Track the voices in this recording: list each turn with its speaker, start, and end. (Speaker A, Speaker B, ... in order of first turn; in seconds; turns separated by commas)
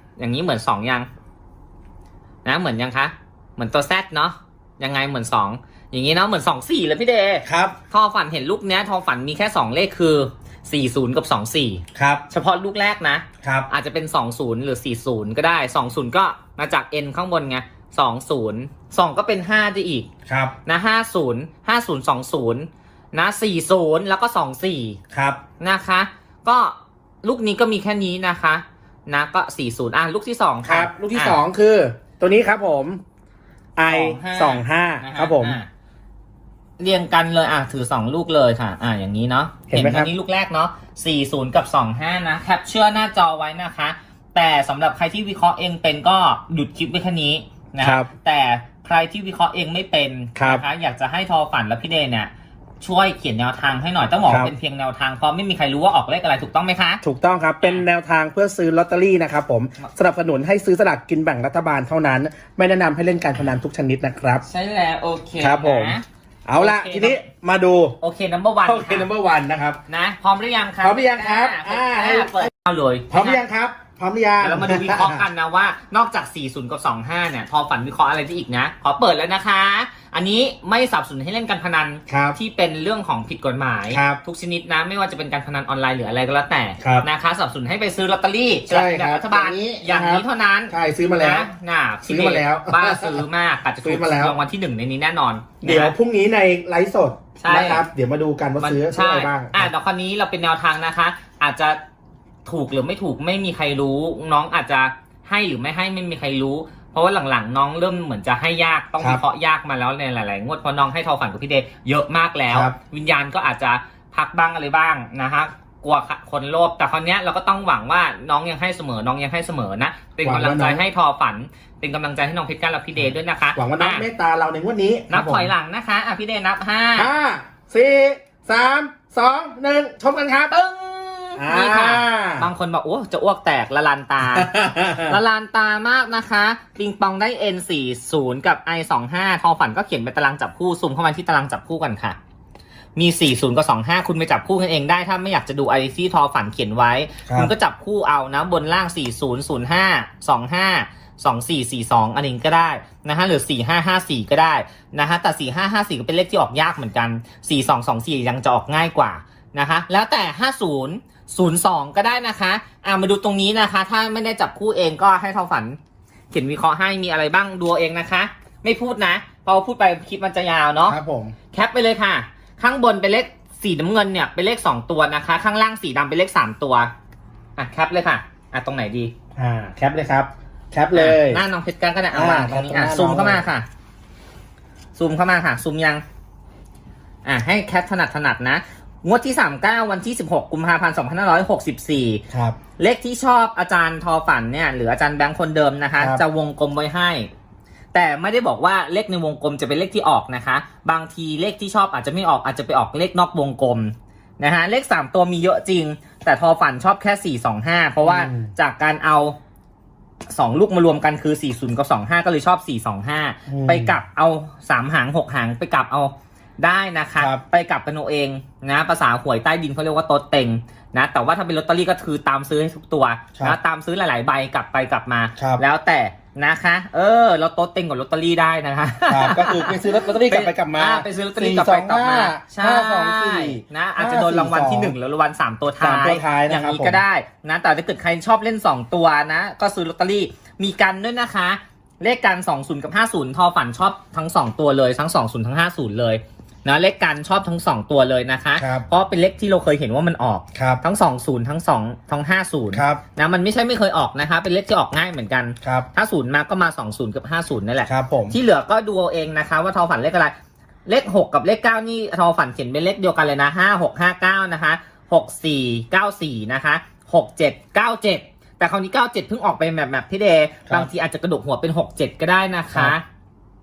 Speaker A: 0.2-1.1, Speaker A: 2.5-20.1, Speaker B: 7.5-7.8, Speaker B: 11.9-12.2, Speaker B: 13.4-13.7, Speaker B: 20.3-20.5, Speaker A: 20.6-25.0, Speaker B: 25.1-25.4, Speaker A: 25.6-31.4, Speaker B: 30.6-33.0, Speaker B: 33.8-35.6, Speaker A: 33.9-35.7, Speaker A: 36.8-52.3, Speaker B: 39.7-40.1, Speaker B: 47.8-48.1, Speaker B: 50.4-50.6, Speaker A: 52.8-57.0, Speaker B: 54.3-54.5, Speaker B: 57.0-64.5, Speaker A: 64.4-66.0, Speaker B: 65.4-68.0, Speaker A: 66.6-67.2, Speaker A: 68.0-69.1, Speaker B: 68.7-69.8, Speaker A: 69.9-73.4, Speaker B: 70.8-72.5, Speaker B: 73.1-75.3, Speaker A: 74.4-96.0, Speaker B: 82.1-82.4, Speaker B: 83.9-84.2, Speaker B: 86.8-87.1, Speaker B: 88.7-91.5, Speaker B: 92.0-93.2, Speaker B: 93.8-94.4, Speaker B: 95.6-99.7, Speaker A: 97.4-97.8, Speaker A: 98.6-101.8, Speaker A: 102.5-124.1, Speaker B: 120.2-120.8, Speaker B: 123.0-125.5, Speaker A: 125.1-127.1, Speaker B: 127.0-130.5, Speaker A: 130.5-142.2, Speaker B: 131.4-132.5, Speaker B: 134.2-135.2, Speaker A: 143.0-165.8, Speaker A: 166.3-171.0, Speaker B: 170.9-171.3, Speaker A: 171.5-176.9, Speaker A: 177.6-179.1, Speaker B: 179.4-181.4, Speaker A: 180.9-183.7, Speaker B: 182.1-183.4, Speaker A: 185.0-186.0, Speaker A: 187.2-192.2, Speaker B: 192.3-192.6, Speaker A: 192.8-197.3, Speaker B: 196.0-196.2, Speaker A: 197.9-209.4, Speaker B: 208.0-208.5, Speaker A: 210.3-260.3, Speaker B: 213.5-214.0, Speaker B: 217.2-217.4, Speaker B: 225.4-225.6, Speaker B: 229.1-235.0, Speaker B: 235.8-237.0, Speaker B: 248.6-248.9, Speaker B: 250.6-250.8, Speaker B: 252.7-253.0, Speaker B: 255.6-255.9, Speaker B: 257.9-258.4, Speaker A: 260.9-273.0